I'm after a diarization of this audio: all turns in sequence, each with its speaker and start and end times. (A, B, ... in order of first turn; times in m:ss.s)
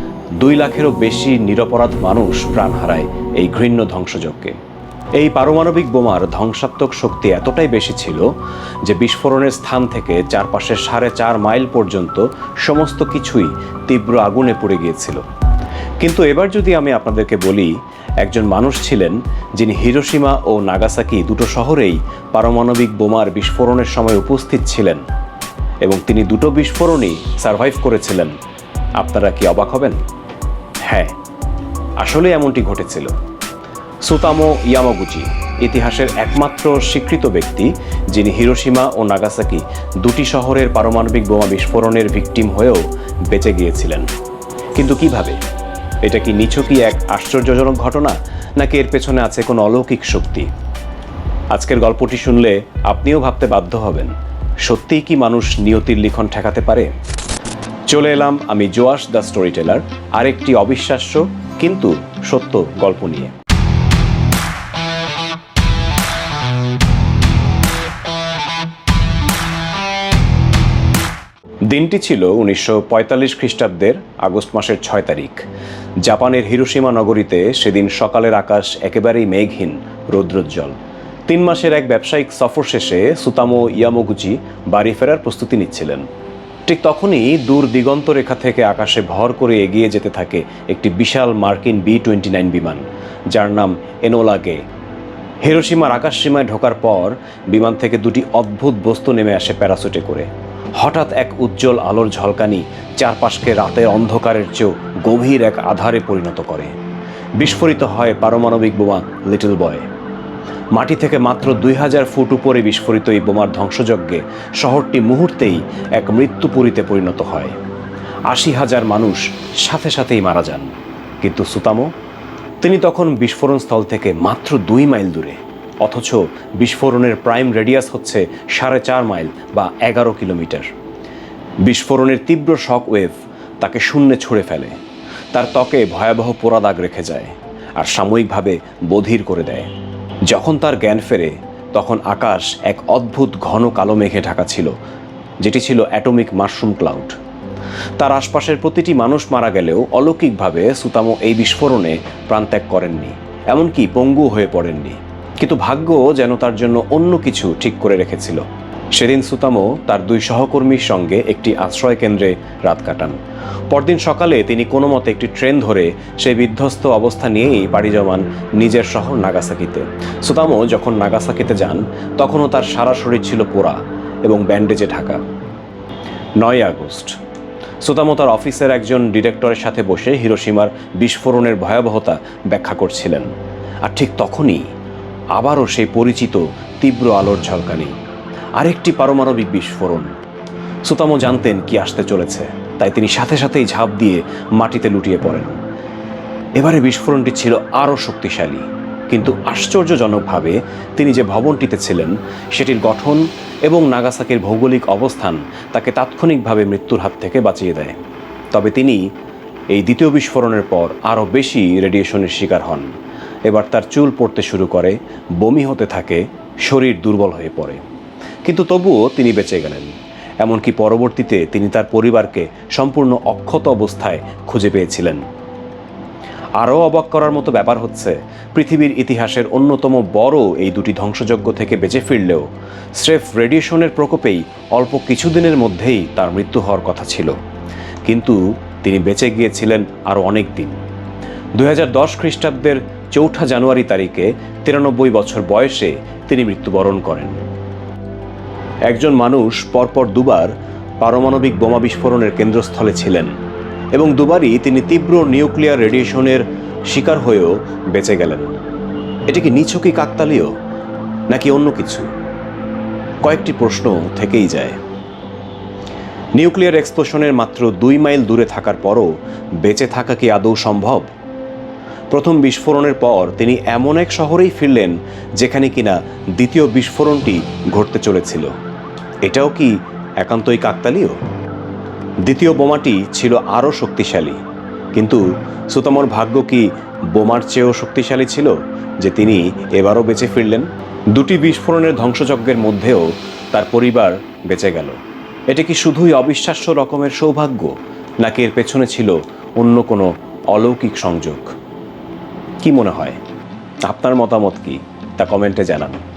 0:00.4-0:04.6 A
0:05.2-0:08.3 A
0:08.8-0:15.2 A
0:16.0-0:25.0 A
0:25.8-0:28.3 A
0:29.0-0:30.0 A
0:30.8-0:31.1 A
0:32.0-0:33.1 A
0:34.0-0:44.1 A
0:44.7-0:45.4 A
0:46.0-0:50.5 A
0:51.5-0:54.1 A
0:54.6-0:56.9 A
0:57.9-1:03.3 A
1:11.6-1:15.5 A
1:16.0-1:20.8 A
1:21.3-1:26.0 A
1:26.6-1:34.6 A
1:35.4-1:40.3 A
1:40.8-1:46.7 A
1:47.4-1:49.9 A
1:50.7-1:57.6 A
1:58.3-2:01.9 A
2:02.6-2:10.7 A
2:11.6-2:14.8 A
2:15.3-2:19.7 A
2:20.3-2:24.7 A
2:25.4-2:27.2 A
2:28.0-2:38.4 A
2:38.9-2:43.2 A
2:43.7-2:55.2 A
2:56.4-2:57.2 A
2:57.8-3:03.3 A
3:03.8-3:04.6 A
3:05.4-3:07.9 A
3:08.6-3:10.1 A
3:10.8-3:15.6 A
3:16.6-3:28.0 A
3:28.5-3:29.0 A
3:29.7-3:32.9 A
3:33.4-3:37.8 A
3:38.4-3:45.2 A
3:46.6-3:57.4 A
3:58.0-4:00.8 A
4:01.6-4:07.4 A
4:08.9-4:13.3 A
4:13.9-4:18.5 A
4:19.3-4:20.5 A
4:21.3-4:22.1 A
4:23.2-4:24.8 A
4:26.3-4:29.1 A
4:29.6-4:31.1 A
4:32.1-4:38.5 A
4:39.2-4:41.2 A
4:42.2-4:44.4 A
4:44.9-4:54.9 A
4:55.5-5:01.5 A
5:02.6-5:03.2 A
5:03.8-5:06.0 A